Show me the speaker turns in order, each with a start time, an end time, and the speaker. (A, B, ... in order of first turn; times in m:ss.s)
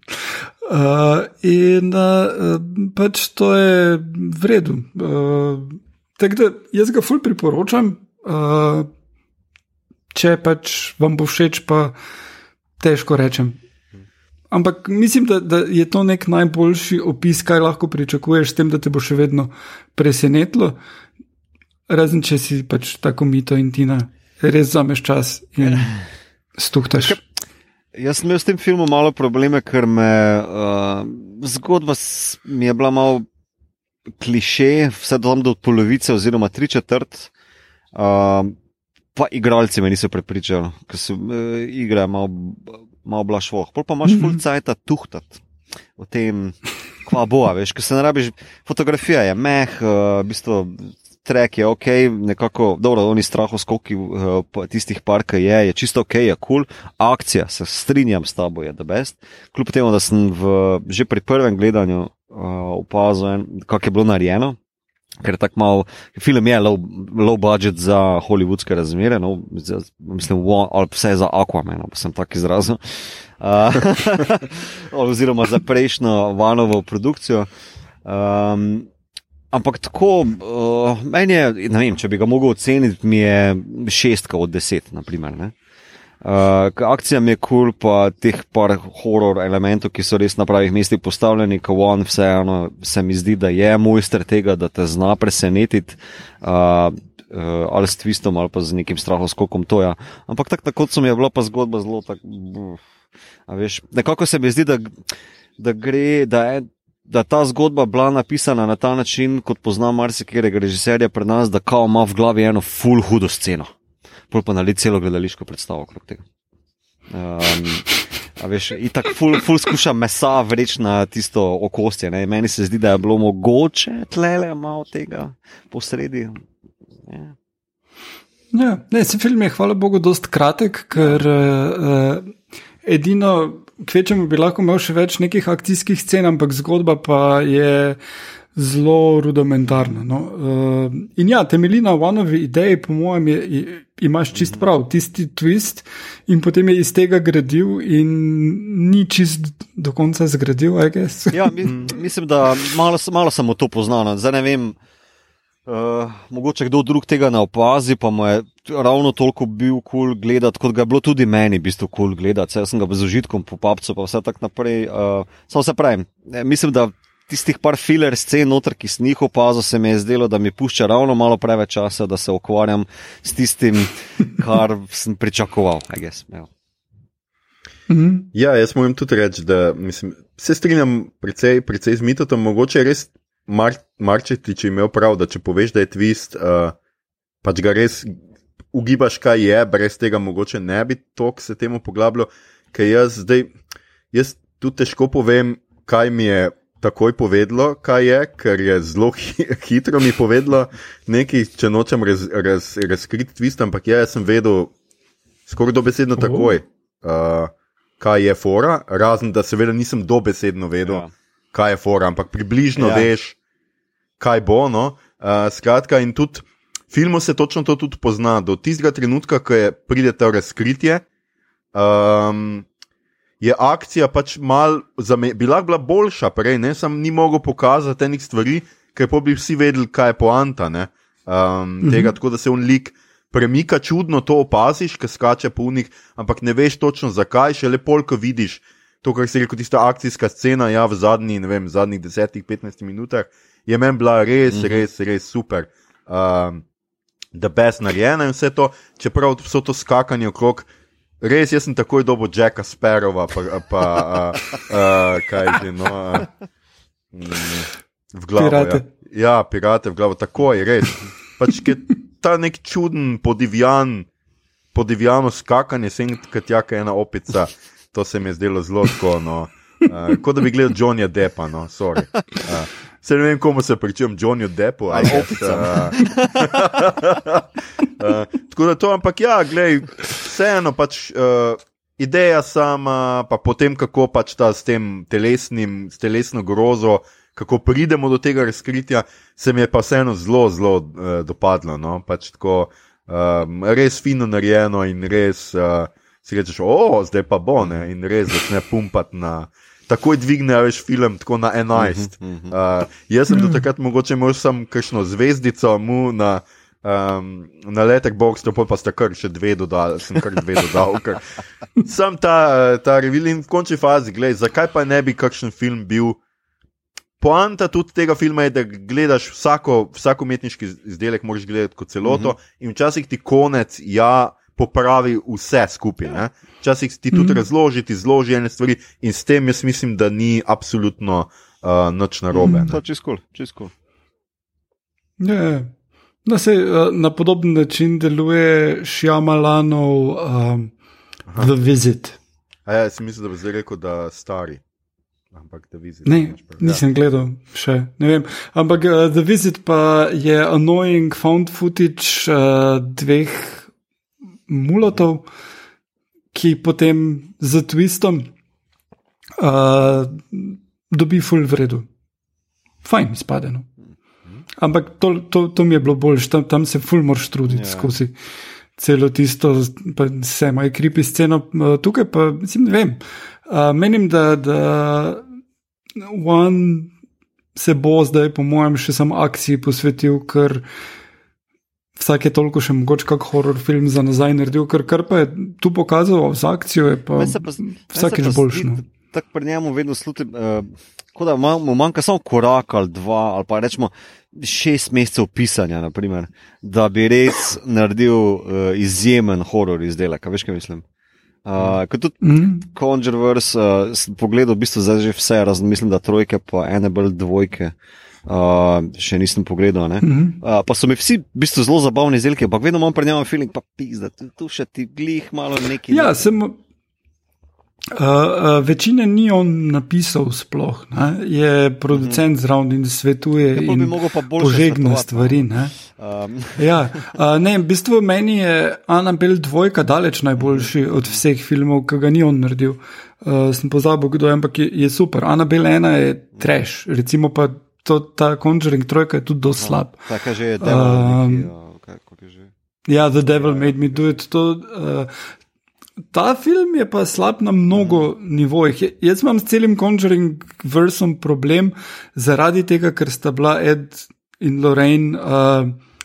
0:00.6-0:08.9 A
0:10.1-0:12.0 A
0:12.8-0:13.6 A
0:14.5-0:20.8 A
0:21.9-0:26.0 A
0:25.6-0:25.9 B
0:26.6-0:27.2 A
0:28.0-0:33.2 B
0:34.2-0:37.3 B
0:37.9-0:38.6 B
0:39.2-0:45.4 B
0:44.1-0:44.4 A
0:46.0-1:04.6 B
1:05.2-1:17.5 B
1:18.0-1:18.9 B
1:19.5-1:25.5 B
1:26.2-1:42.8 B
1:43.5-1:53.7 B
1:54.3-1:56.2 B
1:57.1-2:06.4 B
2:07.0-2:07.4 B
2:08.5-2:12.3 A
2:11.0-2:11.2 B
2:12.8-2:18.0 A
2:18.6-2:31.7 A
2:19.7-2:20.0 B
2:24.3-2:24.6 B
2:31.3-2:34.8 B
2:35.7-2:56.5 B
2:57.9-2:58.3 A
2:58.3-3:06.8 C
3:07.4-3:08.2 C
3:08.7-3:13.5 C
3:14.1-3:24.7 C
3:25.5-3:33.4 C
3:26.2-3:26.5 A
3:30.8-3:31.1 B
3:32.8-3:33.1 B
3:34.2-3:41.0 C
3:41.7-3:42.7 C
3:43.4-4:06.6 C
3:51.8-3:52.1 A
4:04.5-4:04.8 B
4:07.4-4:10.7 C
4:11.2-4:16.3 C
4:17.1-4:24.1 C
4:18.4-4:18.9 A
4:24.7-5:16.2 C
4:34.9-4:36.7 B
5:01.8-5:02.5 B
5:03.3-5:03.6 A
5:17.2-5:32.8 C
5:22.0-5:22.3 B
5:27.1-5:27.4 A
5:32.3-5:32.7 A
5:32.7-5:33.7 B
5:35.2-5:35.7 A
5:36.2-5:40.7 A
5:41.4-5:42.2 A
5:42.7-5:44.6 C
5:45.3-5:46.8 C
5:46.1-5:53.7 A
5:54.5-5:55.3 A
5:56.3-5:58.3 A
5:59.4-6:01.9 A
6:02.8-6:03.7 A
6:04.6-6:08.1 A
6:07.5-6:07.9 B
6:08.8-6:15.2 A
6:16.0-6:16.9 A
6:17.6-6:20.6 A
6:22.0-6:28.8 A
6:27.2-6:40.8 B
6:41.4-6:47.7 B
6:42.2-6:42.7 A
6:48.3-6:56.4 B
6:50.0-6:50.4 A
6:55.9-6:56.6 A
6:57.9-7:05.8 A
7:01.9-7:02.2 B
7:03.5-7:07.0 B
7:06.6-7:20.0 A
7:10.4-7:11.2 B
7:19.6-7:22.5 B
7:20.6-7:21.5 A
7:22.9-7:25.1 A
7:23.3-7:24.0 B
7:26.1-7:35.8 A
7:27.7-7:28.1 B